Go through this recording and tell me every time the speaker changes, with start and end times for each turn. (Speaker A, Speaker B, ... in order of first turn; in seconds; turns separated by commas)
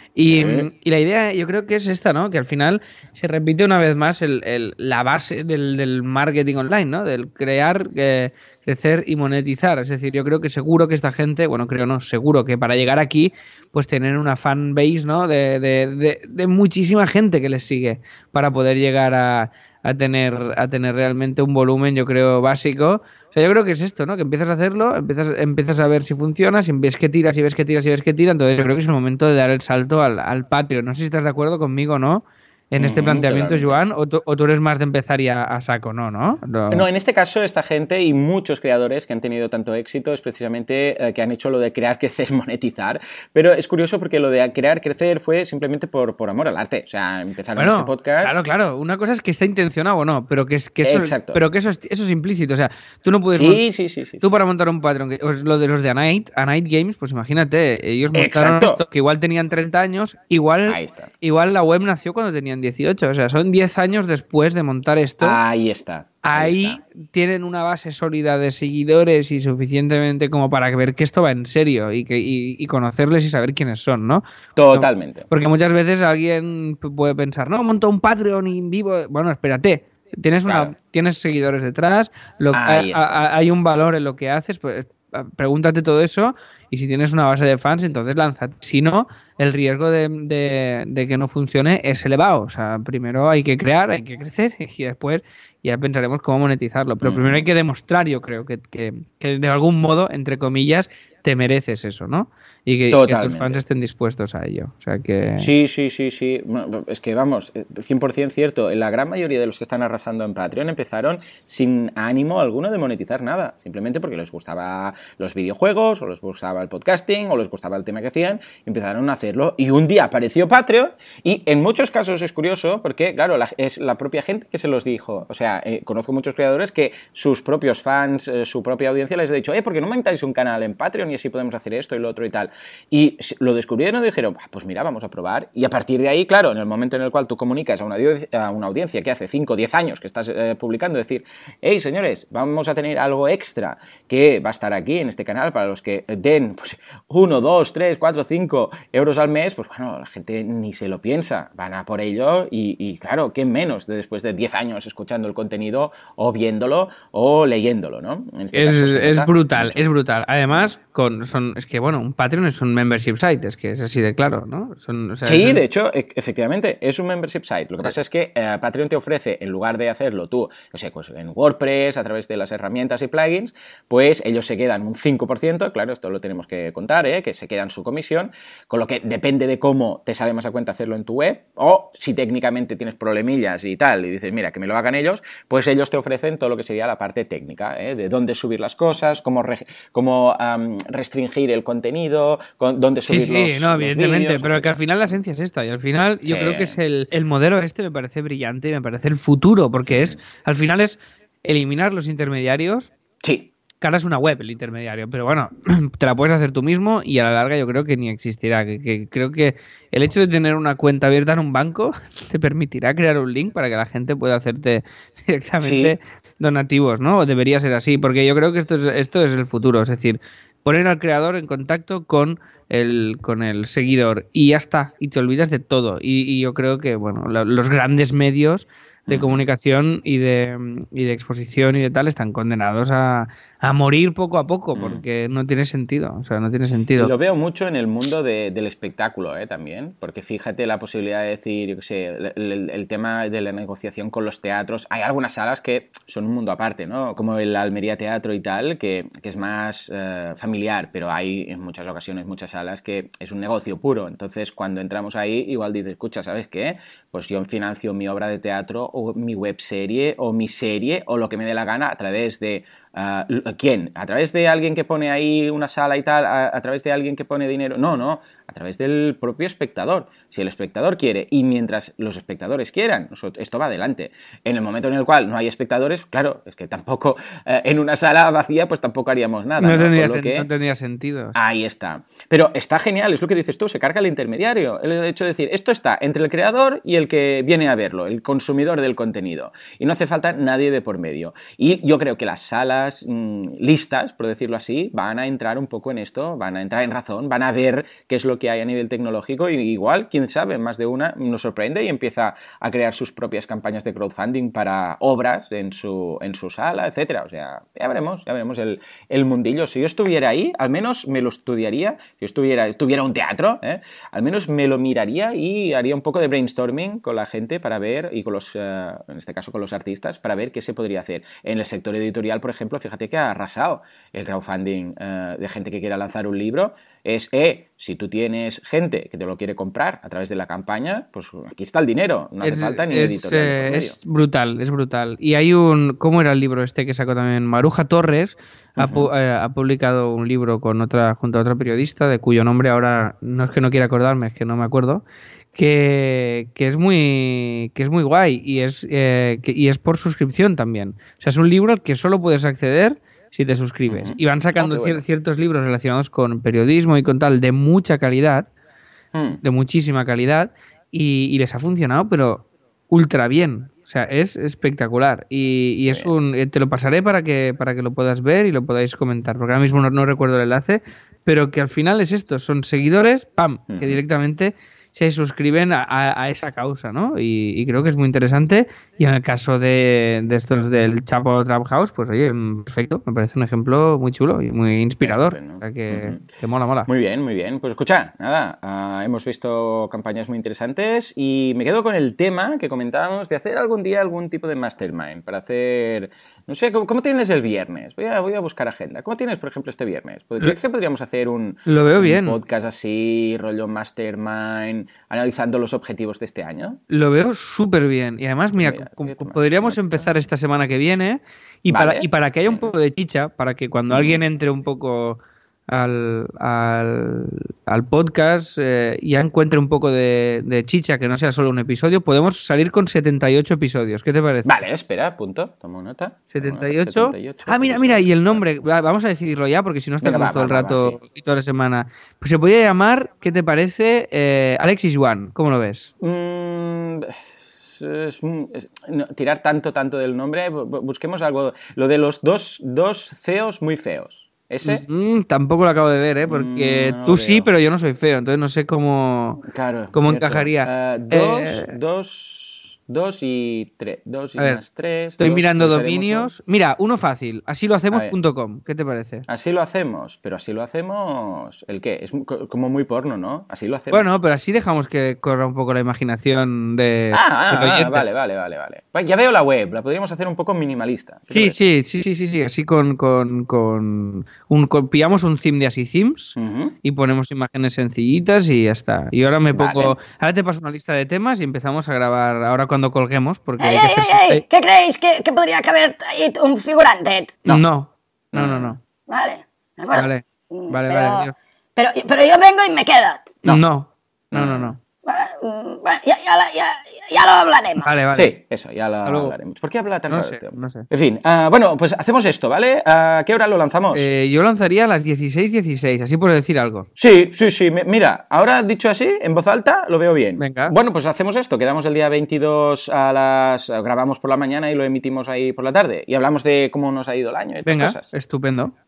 Speaker A: 0.2-36.9, Speaker B: 0.3-0.7, Speaker B: 32.8-33.8, Speaker B: 36.7-48.4, Speaker A: 47.6-53.6, Speaker B: 50.8-51.4, Speaker B: 53.3-54.2, Speaker A: 54.2-65.4, Speaker B: 58.1-58.8, Speaker B: 60.7-61.1, Speaker B: 65.2-66.8, Speaker A: 66.2-105.5, Speaker B: 74.6-75.3, Speaker B: 80.4-80.7, Speaker B: 82.5-83.3, Speaker B: 97.0-97.5, Speaker B: 102.9-103.6, Speaker B: 105.4-159.8, Speaker A: 158.5-165.6, Speaker B: 165.2-194.8, Speaker A: 193.1-202.9, Speaker B: 196.2-196.8, Speaker B: 199.8-200.2, Speaker B: 203.2-203.5, Speaker A: 203.8-237.1, Speaker B: 215.6-216.0, Speaker B: 229.1-229.4, Speaker B: 234.7-235.0, Speaker B: 237.0-280.5, Speaker A: 279.6-281.4, Speaker B: 281.4-334.0, Speaker A: 332.4-358.5, Speaker B: 338.8-339.1, Speaker B: 353.9-355.0, Speaker B: 359.1-359.4, Speaker A: 359.4-386.9, Speaker B: 365.9-366.1, Speaker B: 373.7-374.0, Speaker B: 385.0-386.2, Speaker B: 386.9-406.8, Speaker A: 401.7-402.4, Speaker A: 406.9-424.6, Speaker B: 408.5-410.1, Speaker B: 411.7-412.7, Speaker B: 413.9-414.2, Speaker B: 424.4-428.4, Speaker A: 426.3-435.9, Speaker B: 430.0-431.0, Speaker B: 436.0-444.9, Speaker A: 444.6-451.8, Speaker B: 446.2-447.5, Speaker B: 449.5-456.3, Speaker A: 455.2-459.2, Speaker B: 457.9-458.2, Speaker B: 459.3-464.1, Speaker A: 463.9-468.1, Speaker B: 467.1-471.6, Speaker A: 471.3-484.4, Speaker B: 476.4-476.8, Speaker B: 479.5-480.0, Speaker C: 483.6-487.4, Speaker A: 487.5-488.8, Speaker B: 488.3-488.8, Speaker C: 489.1-493.4, Speaker A: 489.9-491.4, Speaker A: 493.4-494.8, Speaker B: 494.3-494.8, Speaker C: 495.0-498.0, Speaker A: 497.8-498.3, Speaker B: 498.1-504.1, Speaker A: 499.1-499.4, Speaker A: 500.1-500.9, Speaker A: 503.9-506.9, Speaker B: 507.0-518.1, Speaker A: 510.4-510.7, Speaker A: 517.7-518.7